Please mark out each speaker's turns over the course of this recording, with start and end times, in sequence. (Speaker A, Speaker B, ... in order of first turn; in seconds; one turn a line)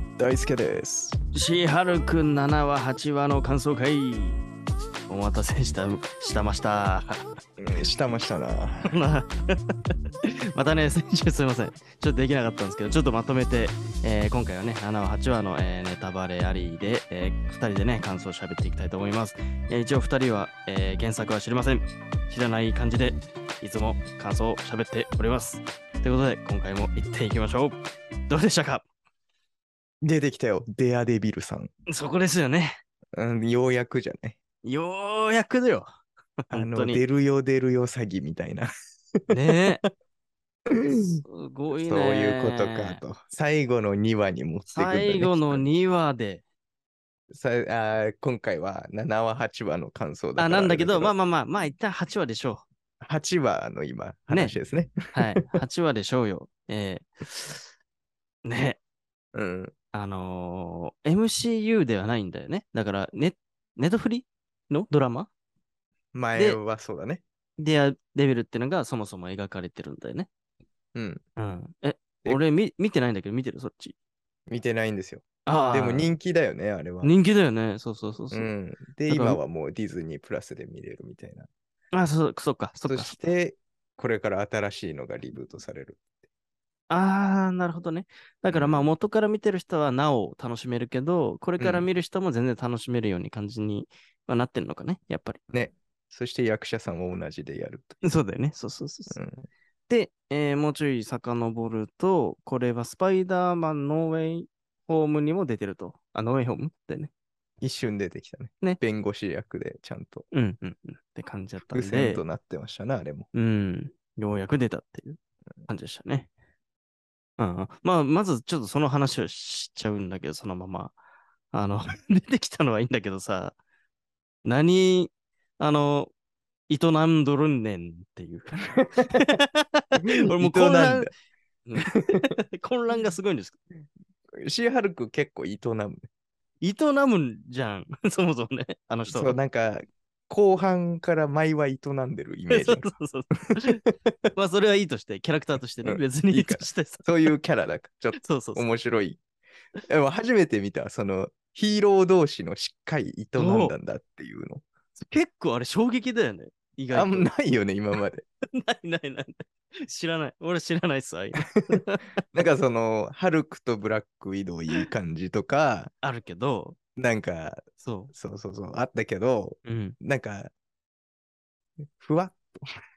Speaker A: 0.2-1.2
Speaker B: 1.3-4.4
Speaker B: 5.1-7.2
Speaker A: 7.6-9.0
Speaker B: 8.8-9.6
Speaker B: 10.2-28.8
Speaker A: 30.0-31.7
Speaker B: 31.9-32.8
Speaker A: 33.1-34.4
Speaker B: 34.6-35.9
Speaker B: 36.5-37.0
Speaker A: 36.5-38.7
Speaker A: 39.3-39.9
Speaker B: 39.3-39.8
Speaker A: 40.7-45.7
Speaker B: 41.3-43.0
Speaker B: 44.7-46.4
Speaker A: 47.3-51.1
Speaker B: 50.4-52.6
Speaker A: 53.0-55.4
Speaker B: 54.3-54.6
Speaker B: 55.1-57.6
Speaker B: 58.4-58.8
Speaker A: 59.3-59.7
Speaker B: 59.9-65.3
Speaker A: 66.1-67.2
Speaker B: 66.3-66.6
Speaker B: 67.6-70.3
Speaker A: 70.9-71.2
Speaker B: 71.4-73.9
Speaker A: 74.5-77.1
Speaker B: 75.5-76.2
Speaker B: 77.0-78.5
Speaker A: 78.3-81.5
Speaker B: 79.1-79.4
Speaker B: 81.9-83.1
Speaker A: 82.8-86.0
Speaker B: 86.9-95.4
Speaker A: 88.5-88.9
Speaker A: 91.6-91.9
Speaker A: 95.5-98.0
Speaker B: 98.0-99.2
Speaker A: 99.1-99.5
Speaker B: 99.9-107.1
Speaker A: 107.6-110.2
Speaker B: 110.3-112.2
Speaker A: 111.7-113.3
Speaker B: 113.3-116.3
Speaker B: 117.4-121.0
Speaker B: 121.5-123.5
Speaker B: 124.4-126.1
Speaker B: 126.7-131.1
Speaker A: 128.8-129.3
Speaker A: 129.9-131.1
Speaker B: 131.7-133.6
Speaker A: 134.4-136.0
Speaker B: 136.6-139.3
Speaker A: 139.1-142.9
Speaker B: 142.5-143.8
Speaker A: 143.5-144.1
Speaker B: 144.3-147.3
Speaker A: 145.8-149.2
Speaker B: 148.2-148.7
Speaker A: 149.9-154.6
Speaker B: 153.4-153.7
Speaker B: 155.0-157.3
Speaker A: 156.9-158.2
Speaker B: 158.5-162.2
Speaker A: 162.3-165.9
Speaker B: 166.0-166.8
Speaker A: 166.9-170.5
Speaker B: 167.8-168.1
Speaker B: 169.6-170.0
Speaker A: 171.9-172.6